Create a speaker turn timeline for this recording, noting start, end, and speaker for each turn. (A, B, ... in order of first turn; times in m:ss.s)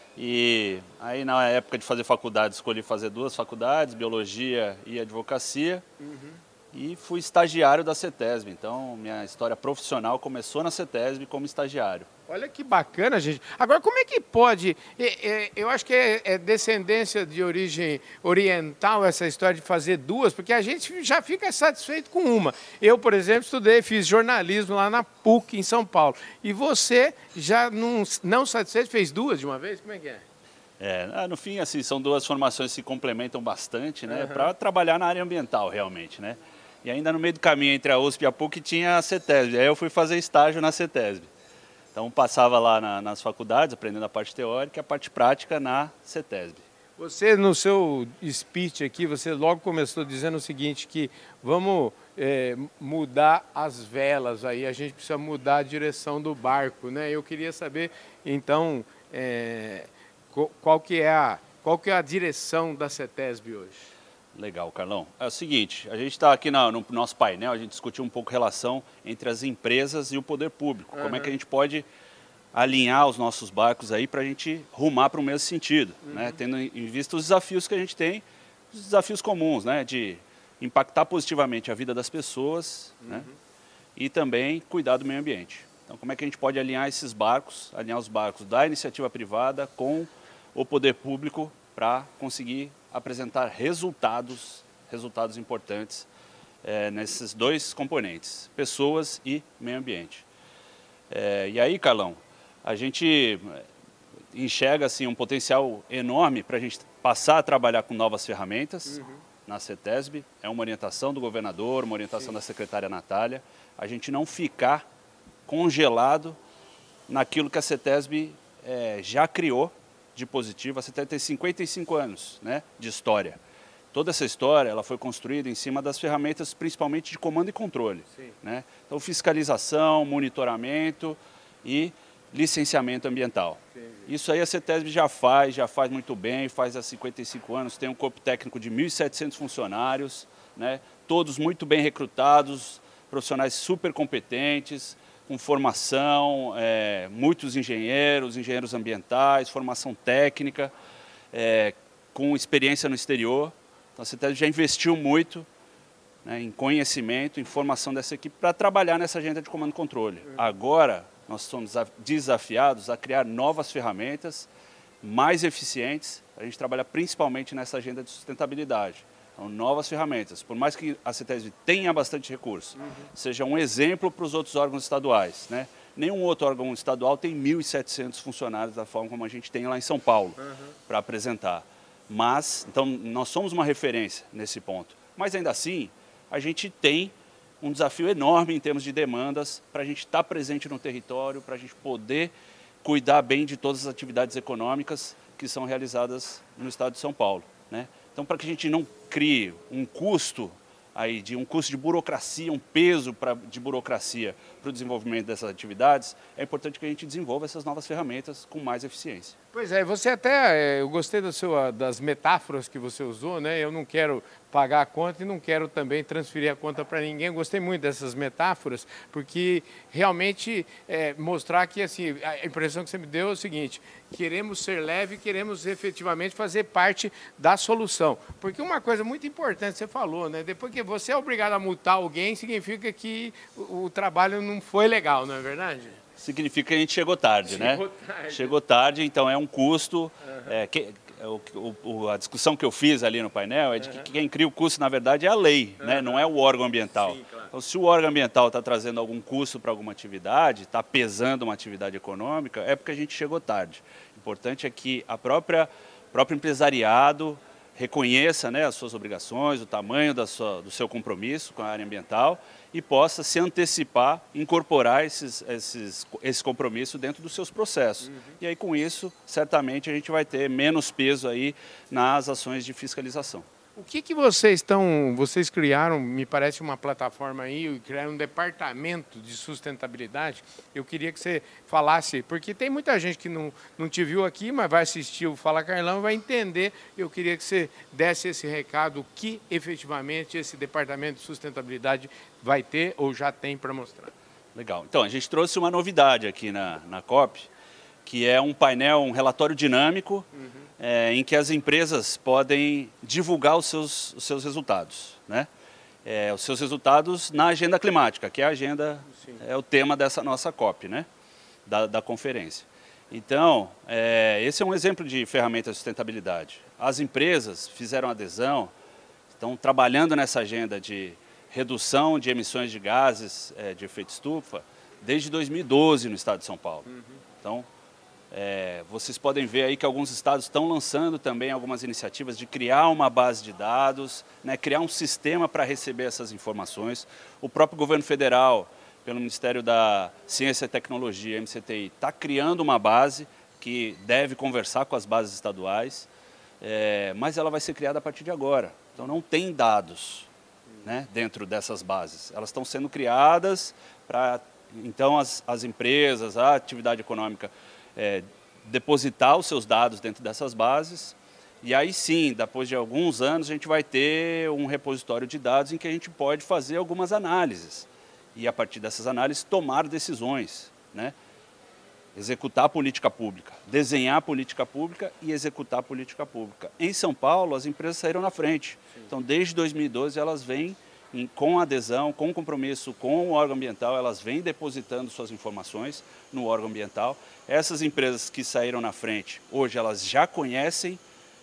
0:00.2-0:05.8 A
0:06.0-0:06.4 B
0:06.7-0:12.1 A
0:12.3-0:30.2 B
0:30.8-0:41.3 A
0:34.1-0:34.5 B
0:41.9-0:46.6 A
0:47.0-1:03.9 B
1:04.4-1:11.9 A
1:10.9-1:11.3 B
1:12.5-1:23.3 A
1:16.0-1:16.4 B
1:23.0-1:23.3 B
1:24.0-1:36.1 A
1:36.6-1:40.3 A
1:41.1-1:43.6 A
1:44.3-1:54.9 A
1:48.9-1:49.2 B
1:55.5-1:56.4 A
1:57.1-2:03.4 A
2:03.9-2:30.7 A
2:13.8-2:14.1 B
2:31.3-2:35.5 A
2:36.2-2:44.5 A
2:45.0-3:29.4 A
2:52.8-2:53.1 B
3:29.5-3:56.0 B
3:56.2-4:33.5 A
3:57.5-3:58.6 B
4:00.2-4:00.5 B
4:05.8-4:06.2 B
4:07.0-4:07.5 B
4:28.0-4:28.3 B
4:33.8-4:54.1 B
4:54.6-4:57.5 A
4:58.0-5:00.3 A
5:00.8-5:05.5 A
5:06.0-5:11.1 A
5:09.1-5:09.4 B
5:11.7-5:18.7 A
5:19.4-5:26.9 A
5:27.4-5:27.7 A
5:28.3-5:46.1 A
5:46.6-5:50.3 A
5:50.8-6:11.2 A
6:12.2-6:31.0 A